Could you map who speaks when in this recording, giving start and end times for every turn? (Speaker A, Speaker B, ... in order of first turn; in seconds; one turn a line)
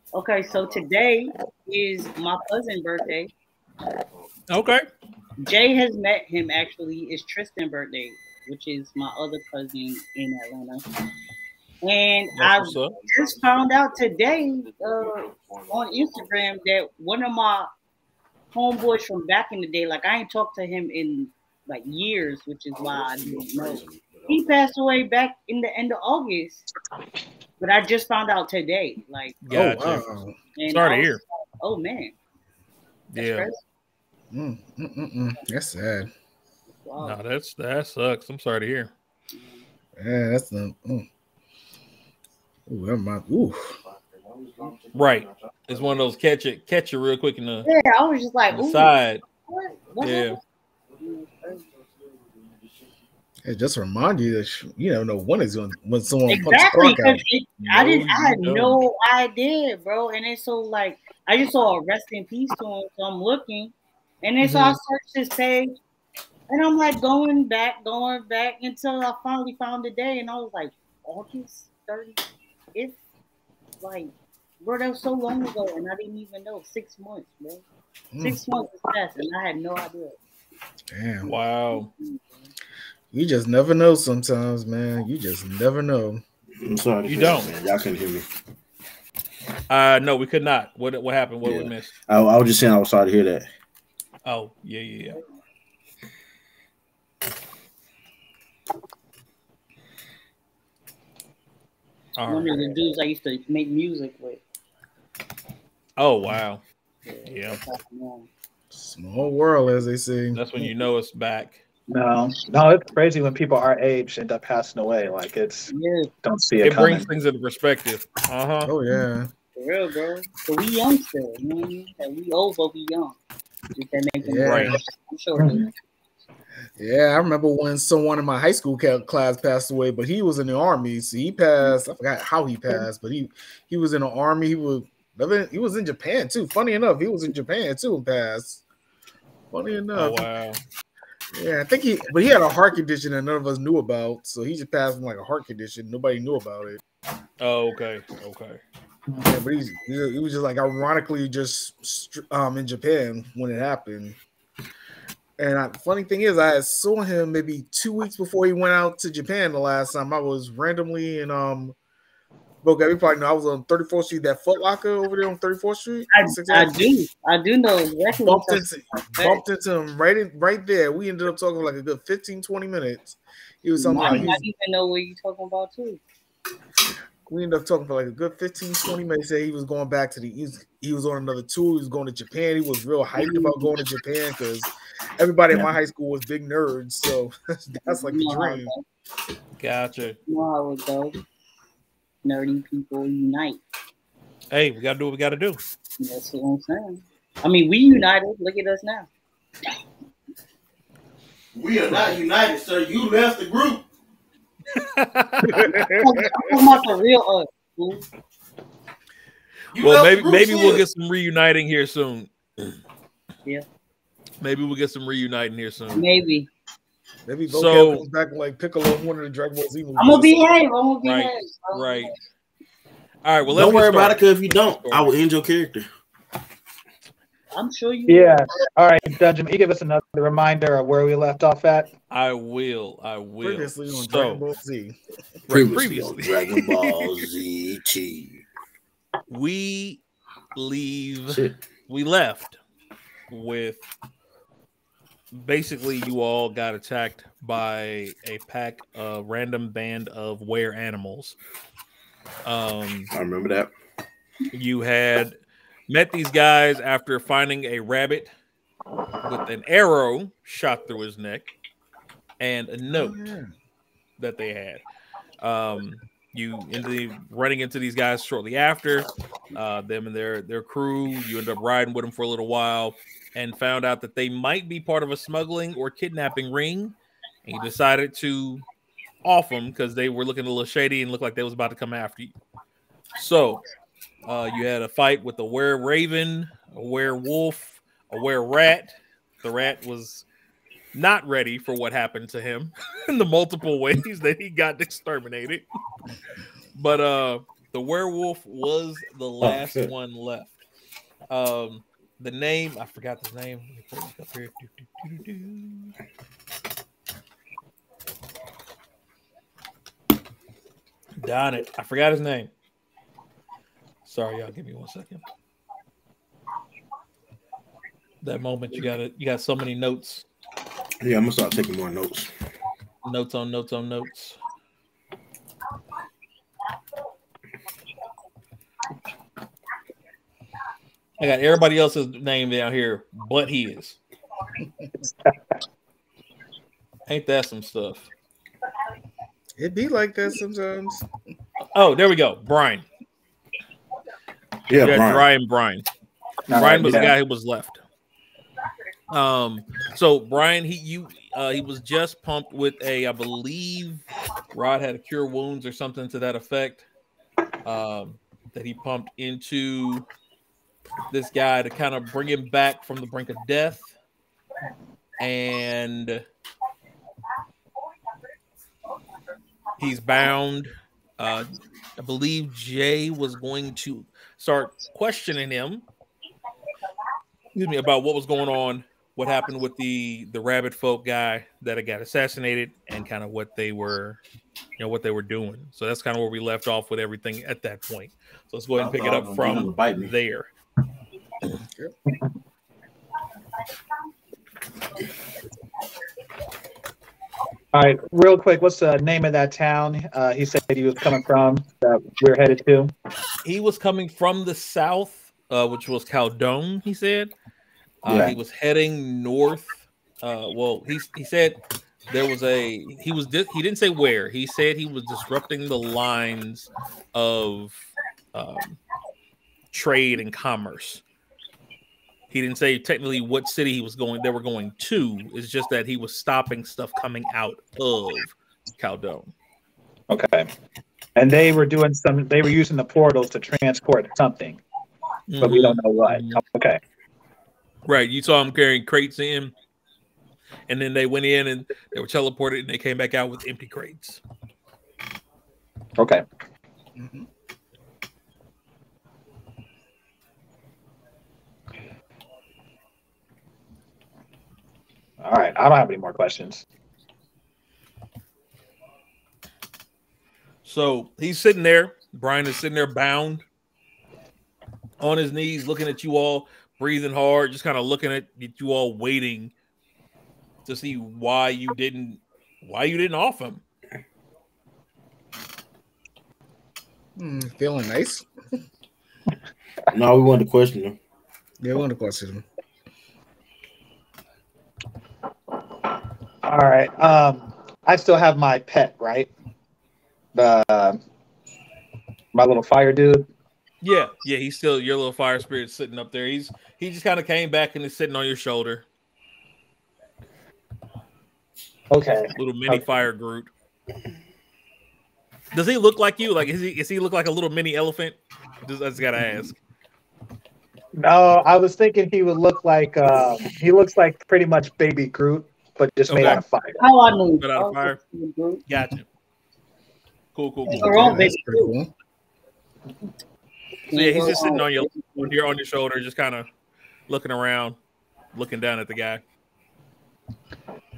Speaker A: 0.1-3.3
Speaker B: 0.5-0.8
Speaker C: 4.5-4.8
Speaker A: 5.4-10.8
Speaker A: 11.8-17.7
Speaker C: 12.4-12.9
Speaker B: 12.8-13.3
Speaker B: 14.6-16.3
Speaker A: 18.5-26.7
Speaker B: 22.8-24.6
Speaker A: 27.6-29.4
Speaker C: 29.4-30.1
Speaker D: 29.5-30.4
Speaker A: 30.6-32.2
Speaker C: 30.7-31.2
Speaker C: 33.1-33.5
Speaker A: 33.2-33.6
Speaker D: 34.3-36.1
Speaker A: 36.7-37.2
Speaker C: 37.0-38.9
Speaker A: 39.3-39.6
Speaker D: 40.0-41.1
Speaker D: 42.7-43.7
Speaker B: 43.8-46.0
Speaker C: 44.9-47.7
Speaker A: 47.6-50.4
Speaker C: 48.5-49.2
Speaker C: 50.0-50.4
Speaker A: 51.0-51.6
Speaker D: 53.4-57.2
Speaker A: 56.3-65.8
Speaker C: 57.7-58.8
Speaker D: 64.4-64.8
Speaker A: 66.5-72.2
Speaker A: 73.8-77.6
Speaker D: 78.1-78.4
Speaker A: 78.2-80.2
Speaker D: 80.9-81.3
Speaker C: 81.2-81.9
Speaker A: 81.7-82.4
Speaker D: 83.1-86.2
Speaker B: 86.6-88.3
Speaker C: 87.1-87.5
Speaker C: 89.7-91.9
Speaker B: 91.4-93.5
Speaker C: 94.2-95.2
Speaker C: 102.2-102.7
Speaker A: 102.3-104.4
Speaker C: 106.0-106.6
Speaker A: 107.1-108.3
Speaker C: 107.3-107.6
Speaker D: 108.7-110.4
Speaker C: 110.3-111.6
Speaker E: 111.9-115.7
Speaker A: 115.7-116.1
Speaker E: 116.2-117.1
Speaker C: 116.6-118.7
Speaker D: 118.6-119.3
Speaker A: 119.6-123.2
Speaker A: 123.7-125.7
Speaker D: 124.2-124.8
Speaker C: 124.4-124.8
Speaker E: 125.4-125.7
Speaker D: 126.8-138.6
Speaker D: 139.5-140.3
Speaker C: 139.9-140.6
Speaker D: 141.3-146.8
Speaker C: 147.4-148.6
Speaker D: 149.2-154.2
Speaker D: 155.4-161.8
Speaker D: 162.6-166.9
Speaker A: 166.1-169.4
Speaker D: 168.3-174.4
Speaker A: 173.8-176.0
Speaker D: 177.3-188.7
Speaker A: 183.2-183.7
Speaker A: 187.8-188.8
Speaker C: 189.6-190.2
Speaker A: 190.3-191.2
Speaker A: 192.2-193.6
Speaker C: 194.5-195.6
Speaker A: 196.0-199.1
Speaker B: 201.5-203.8
Speaker C: 204.7-206.6
Speaker D: 205.5-205.9
Speaker A: 205.6-208.1
Speaker B: 209.7-210.8
Speaker C: 209.8-212.3
Speaker C: 214.4-216.1
Speaker A: 215.9-216.5
Speaker D: 217.3-220.4
Speaker C: 217.5-218.1
Speaker A: 220.0-222.1
Speaker C: 221.0-222.1
Speaker C: 223.2-225.2
Speaker B: 223.5-225.9
Speaker A: 227.6-228.4
Speaker E: 228.1-231.9
Speaker C: 232.1-234.4
Speaker D: 233.4-235.0
Speaker C: 235.5-237.1
Speaker B: 235.5-238.4
Speaker C: 239.3-240.0
Speaker C: 240.6-242.6
Speaker B: 241.3-241.6
Speaker C: 243.3-243.8
Speaker C: 245.3-251.4
Speaker C: 252.4-253.1
Speaker B: 253.1-253.7
Speaker C: 254.5-255.4
Speaker C: 255.9-258.3
Speaker C: 259.2-261.5
Speaker C: 262.4-263.2
Speaker D: 262.9-263.5
Speaker C: 264.2-264.8
Speaker C: 265.4-278.6
Speaker C: 279.2-282.4
Speaker C: 283.2-283.6
Speaker C: 284.3-290.2
Speaker C: 290.9-295.6
Speaker C: 296.7-300.5
Speaker B: 299.4-299.9
Speaker C: 301.3-305.9
Speaker C: 311.2-312.5
Speaker C: 314.1-315.2
Speaker C: 318.2-320.3
Speaker B: 321.0-322.3
Speaker C: 323.0-324.4
Speaker C: 331.2-334.0
Speaker C: 337.1-338.1
Speaker D: 339.6-341.1
Speaker C: 341.7-342.9
Speaker B: 344.7-345.3
Speaker C: 344.8-345.9
Speaker E: 346.5-347.1
Speaker C: 346.6-347.8
Speaker B: 346.8-347.1
Speaker C: 349.1-356.9
Speaker C: 357.6-360.1
Speaker C: 361.1-363.9
Speaker C: 365.2-366.2
Speaker C: 369.8-375.8
Speaker C: 377.6-384.2
Speaker C: 384.8-390.5
Speaker B: 388.8-390.1
Speaker E: 397.7-402.9
Speaker C: 403.4-407.3
Speaker C: 408.0-411.6
Speaker D: 408.1-408.4
Speaker C: 412.1-418.8
Speaker C: 419.7-421.0
Speaker C: 422.3-429.3
Speaker E: 430.1-430.5
Speaker E: 431.2-434.6
Speaker C: 435.3-436.4
Speaker E: 435.4-436.8
Speaker C: 437.9-439.5
Speaker C: 440.7-444.2
Speaker E: 446.0-446.2
Speaker D: 447.0-447.3
Speaker E: 455.2-456.6
Speaker C: 460.6-463.4
Speaker C: 465.0-469.5
Speaker C: 470.6-473.6
Speaker D: 477.2-478.3
Speaker B: 479.9-481.0
Speaker D: 481.6-482.4
Speaker E: 486.5-489.3
Speaker E: 490.4-491.0
Speaker E: 492.3-493.3
Speaker C: 493.8-498.9
Speaker E: 501.9-502.8
Speaker C: 502.3-503.5
Speaker C: 505.5-509.6
Speaker E: 511.0-516.8
Speaker C: 516.1-516.4
Speaker A: 516.8-518.6
Speaker C: 517.4-518.0
Speaker C: 518.7-519.1
Speaker C: 520.3-521.2
Speaker D: 520.7-521.9
Speaker A: 520.7-521.7
Speaker A: 523.9-525.3
Speaker C: 523.9-526.5
Speaker C: 527.1-527.8
Speaker C: 528.3-529.2